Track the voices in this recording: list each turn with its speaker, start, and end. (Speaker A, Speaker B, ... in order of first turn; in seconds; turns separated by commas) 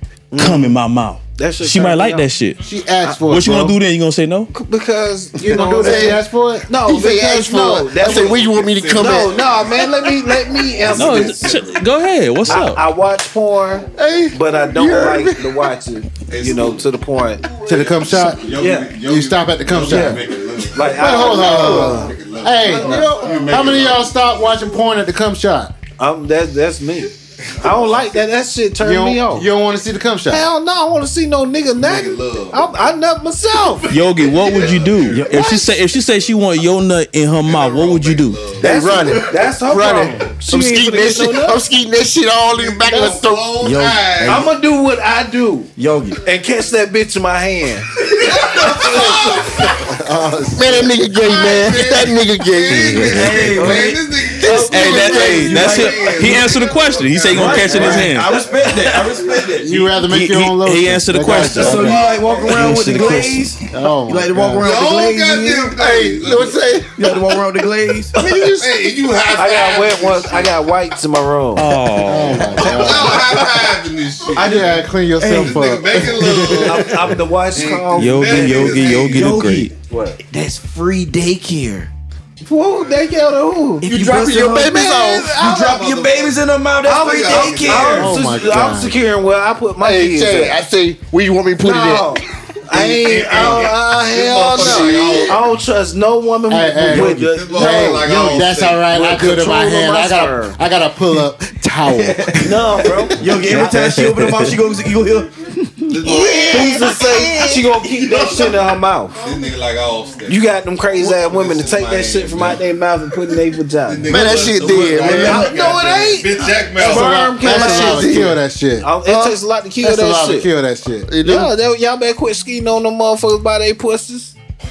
Speaker A: 0.3-0.7, Speaker B: 0.3-2.6, Speaker A: 1.4-2.2, Speaker C: 2.6-3.8, Speaker B: 3.2-4.5, Speaker A: 4.5-8.4, Speaker C: 5.5-6.7, Speaker D: 5.5-6.2, Speaker D: 6.8-9.3, Speaker E: 8.0-11.9, Speaker A: 8.9-11.6, Speaker B: 10.9-12.8, Speaker A: 12.4-17.4, Speaker D: 13.9-15.7, Speaker E: 16.3-16.9, Speaker C: 17.6-20.2, Speaker E: 17.9-24.1, Speaker A: 18.5-18.9, Speaker A: 19.8-22.1, Speaker C: 20.9-25.7, Speaker A: 22.7-23.3, Speaker D: 22.7-23.5, Speaker A: 26.0-29.5, Speaker E: 27.5-28.1, Speaker C: 28.8-30.5, Speaker A: 30.3-33.9, Speaker E: 31.8-32.7, Speaker E: 33.9-35.4, Speaker B: 33.9-38.4, Speaker F: 35.1-35.7, Speaker A: 35.4-35.7, Speaker E: 37.4-38.8, Speaker A: 38.6-41.6, Speaker D: 38.6-43.8, Speaker E: 42.5-44.5, Speaker F: 43.6-44.5, Speaker A: 44.2-48.0, Speaker F: 45.8-46.2, Speaker E: 48.1-49.8, Speaker F: 48.4-48.9, Speaker A: 48.8-49.3, Speaker C: 49.5-51.0, Speaker D: 50.5-53.3, Speaker E: 51.2-57.9, Speaker F: 52.8-54.0, Speaker B: 53.3-53.7, Speaker A: 53.5-55.5, Speaker D: 54.4-55.4, Speaker F: 54.7-56.5, Speaker B: 54.7-58.4, Speaker F: 57.3-59.9, Speaker A: 57.3-58.1, Speaker C: 59.6-62.1, Speaker B: 60.0-63.6, Speaker F: 61.5-65.8, Speaker E: 61.8-62.3, Speaker A: 62.7-63.1, Speaker C: 63.7-64.7, Speaker E: 64.5-66.7, Speaker D: 65.7-67.3, Speaker F: 66.9-68.2, Speaker D: 68.1-68.9, Speaker E: 68.5-70.7, Speaker A: 69.3-71.7, Speaker B: 71.5-72.9, Speaker C: 72.0-73.4, Speaker E: 72.5-76.9, Speaker F: 73.3-73.6, Speaker C: 74.3-76.9, Speaker F: 75.2-76.0, Speaker A: 76.4-79.0, Speaker E: 77.5-79.2, Speaker B: 77.9-79.7, Speaker F: 78.7-81.9, Speaker A: 79.9-80.2, Speaker A: 82.4-83.9, Speaker F: 83.8-88.2, Speaker D: 84.0-85.4, Speaker E: 85.3-88.0, Speaker A: 86.9-90.6, Speaker C: 87.9-89.0, Speaker D: 89.8-92.2, Speaker A: 91.6-100.6, Speaker E: 92.7-95.4, Speaker D: 92.7-95.4, Speaker C: 96.5-103.0, Speaker E: 96.9-98.9, Speaker F: 101.8-107.7, Speaker A: 102.4-103.6, Speaker B: 103.3-104.5, Speaker E: 105.9-107.1, Speaker A: 106.0-109.2, Speaker E: 107.9-108.6, Speaker E: 109.2-112.6, Speaker A: 110.3-114.2, Speaker E: 113.8-117.2, Speaker D: 114.1-115.5, Speaker F: 114.1-115.8, Speaker A: 115.1-118.3, Speaker C: 116.8-118.9, Speaker D: 117.4-118.4, Speaker A: 118.8-120.5, Speaker D: 119.0-119.4, Speaker C: 119.8-121.1, Speaker D: 121.1-121.5, Speaker A: 121.2-124.3